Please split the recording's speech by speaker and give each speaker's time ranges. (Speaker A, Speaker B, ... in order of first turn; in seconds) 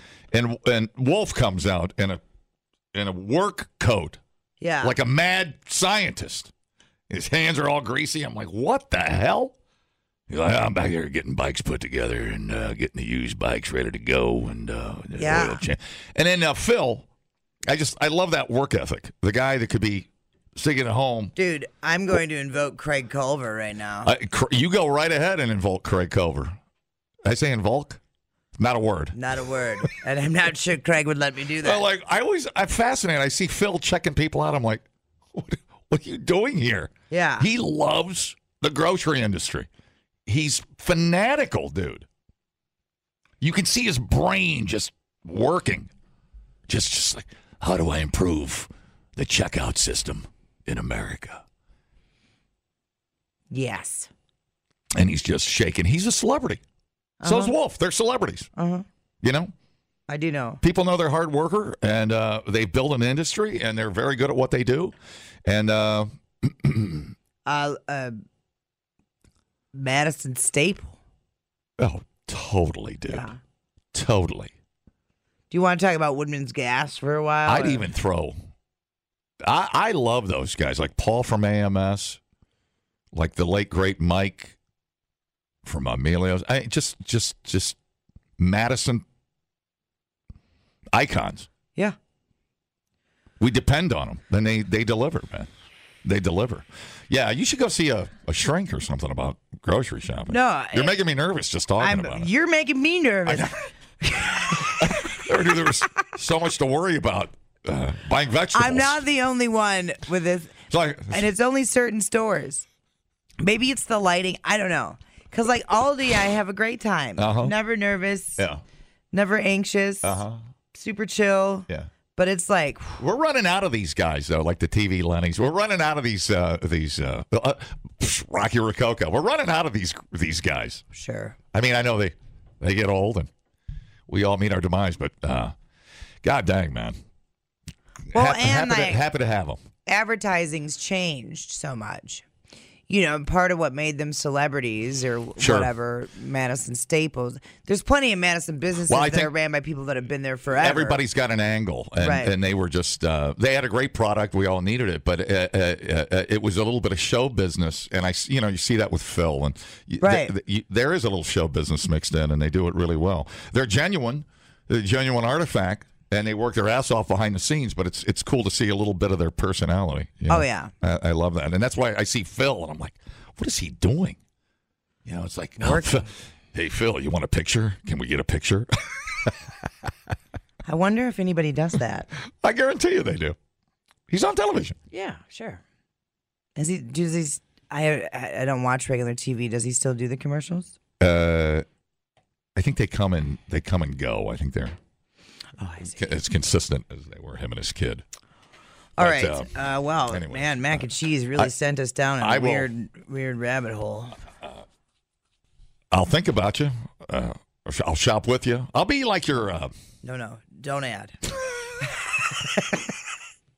Speaker A: 0.3-2.2, 2.9-4.2, 4.8-6.5, 7.1-9.5, 10.3-17.1, 17.7-21.3, 24.0-26.6, 27.2-28.0, 28.6-29.1, 31.6-39.7, 40.3-42.1, 43.4-45.9, 46.7-51.4, 54.9-56.6, 57.2-58.5, 59.2-59.5, 60.6-67.1, 71.8-73.3, 73.9-74.5, 77.4-78.4, 79.4-82.2, 83.1-84.5, 85.6-87.8, 88.4-89.0, 90.9-91.5, 93.4-95.5, 96.0-102.3, 103.2-103.5, 104.5-109.0, 110.7-111.2, 117.2-117.6, 118.4-118.6, 120.0-120.4, 123.0-130.8, 131.5-133.3, 134.1-135.5, 136.2-137.0, 138.1-139.6, 145.4-145.7, 148.9-149.3, 150.6-174.2, 175.0-179.4, 182.4-183.3, 184.1-184.8, 191.0-191.6, 192.6-194.8, 195.8-198.0, 199.0-199.5, 200.1-201.5, 202.2-202.7, 205.9-209.7
Speaker B: 4.6-5.0, 15.2-15.6, 21.4-24.1, 29.1-31.8, 37.1-37.5, 53.5-54.1, 57.2-57.5, 58.5-58.8, 60.1-60.6, 67.5-68.2, 69.7-71.0, 73.1-73.4, 75.5-77.8, 100.3-100.9, 101.8-105.0, 108.5-110.5, 111.1-112.7, 113.4-118.4, 119.1-120.2, 120.7-123.0, 130.9-131.3, 138.1-139.0, 139.8-142.2, 142.9-151.0, 152.0-152.3, 160.0-160.3, 170.3-170.7, 175.6-176.0, 180.6-182.1, 184.9-185.6, 186.6-190.7, 195.6-196.0, 199.0-204.1, 210.0-211.2, 212.3-212.8